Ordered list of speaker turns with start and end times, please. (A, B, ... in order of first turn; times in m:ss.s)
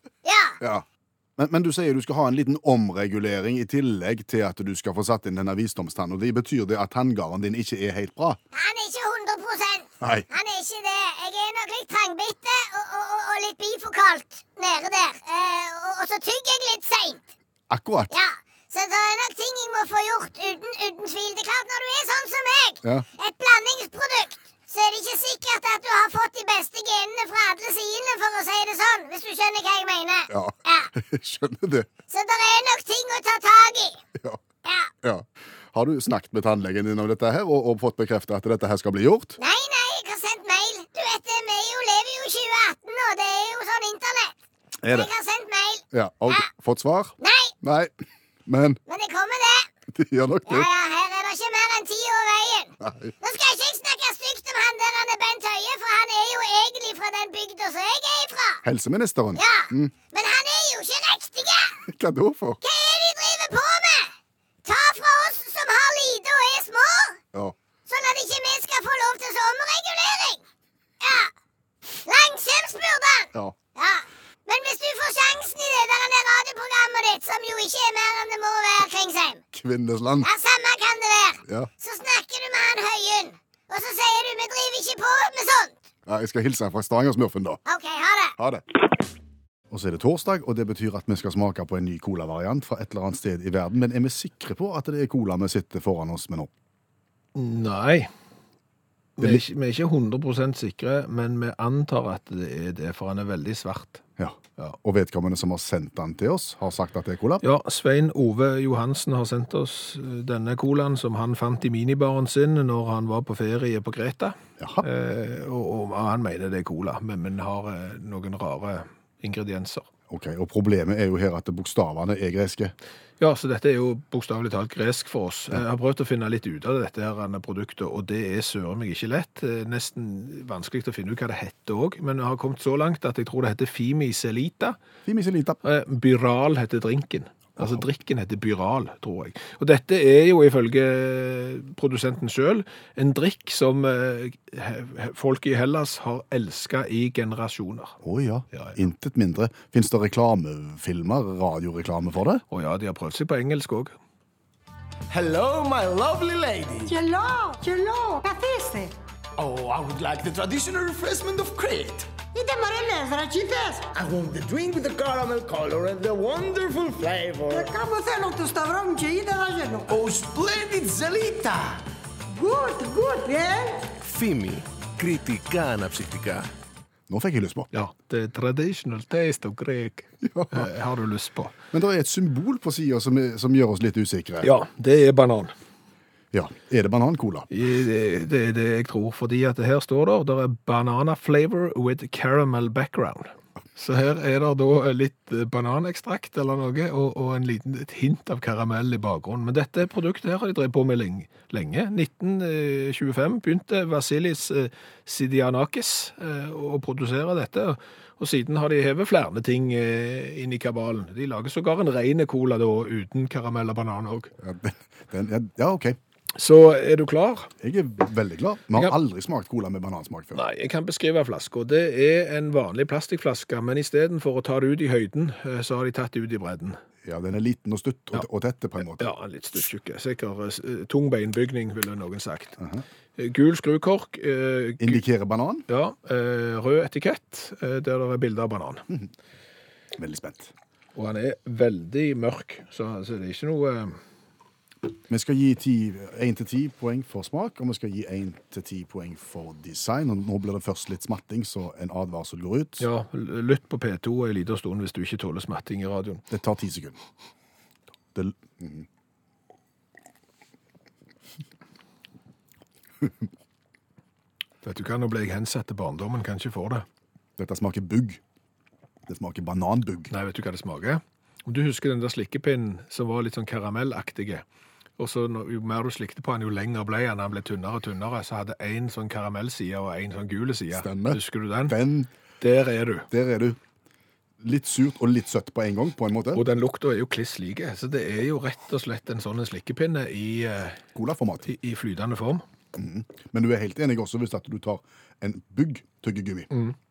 0:00.2-0:00.6 A
0:00.6-0:00.8 B
0:01.4-0:08.4 B
0:08.5-0:17.2 A
0:10.0-0:10.3 B
0:17.7-0:18.1 B
0:18.1-0:30.9 A
0:30.3-0:31.9 B
0:32.1-0:34.0 A
0:34.6-0:34.9 A
0:35.0-0:39.4 B
0:39.4-0:44.3 A
0:44.8-0:45.1 B
0:44.9-0:46.4 A
0:45.9-0:47.9 B
0:47.2-0:47.5 A
0:48.5-0:48.8 B
0:48.9-0:49.7 A
0:49.9-0:50.7 B
0:50.5-0:58.6 A
0:52.8-0:53.1 B
0:58.6-0:59.9 B
0:59.4-1:01.8 A
1:01.9-1:02.6 B
1:02.6-1:04.1 A
1:04.6-1:07.2 A
1:07.9-1:10.4 A
1:11.0-1:11.3 A
1:12.1-1:19.4 A
1:19.5-1:20.3 B
1:20.2-1:25.8 A
1:26.1-1:27.6 B
1:27.7-1:28.4 A
1:28.4-1:28.6 B
1:29.7-1:36.5 B
1:37.4-1:38.1 C
1:39.2-1:44.0 C
1:44.2-1:47.4 B
1:47.4-1:59.9 C
1:54.6-1:54.9 B
2:00.1-2:02.7 B
2:03.2-2:14.8 C
2:15.1-2:15.6 B
2:15.6-2:28.0 C
2:28.0-2:32.4 B
2:32.5-2:34.0 C
2:35.1-2:36.9 D
2:36.9-2:38.9 E
2:39.4-2:42.1 D
2:42.3-2:43.9 E
2:43.9-2:47.7 D
2:47.5-2:50.0 E
2:49.9-2:51.8 D
2:52.3-2:53.9 E
2:54.0-2:56.5 F
2:57.1-2:57.7 B
2:57.7-3:01.6 C
3:00.2-3:00.7 B
3:01.7-3:04.5 B
3:04.4-3:05.5 C
3:06.3-3:07.5 B
3:07.5-3:34.3 C
3:34.4-3:36.0 B
3:36.4-3:37.5 C
3:37.6-3:40.4 B
3:40.3-3:46.8 C
3:47.0-3:49.6 B
3:49.0-3:52.6 C
3:53.2-3:55.0 C
3:54.8-3:55.7 B
3:55.7-3:58.8 C
4:00.0-4:00.5 B
4:01.0-4:04.0 C
4:05.1-4:12.9 B
4:12.8-4:16.2 C
4:16.3-4:17.0 B
4:18.2-4:18.9 B
4:24.6-4:26.8 C
4:27.4-4:28.2 B
4:29.1-4:30.1 B
4:30.1-4:34.4 C
4:35.0-4:41.8 C
4:40.7-4:42.1 B
4:42.4-4:43.1 C
4:43.1-4:43.6 B
4:44.4-4:46.4 B
4:46.3-4:50.8 C
4:51.0-4:51.5 B
4:51.4-4:52.4 C
4:52.8-4:56.5 B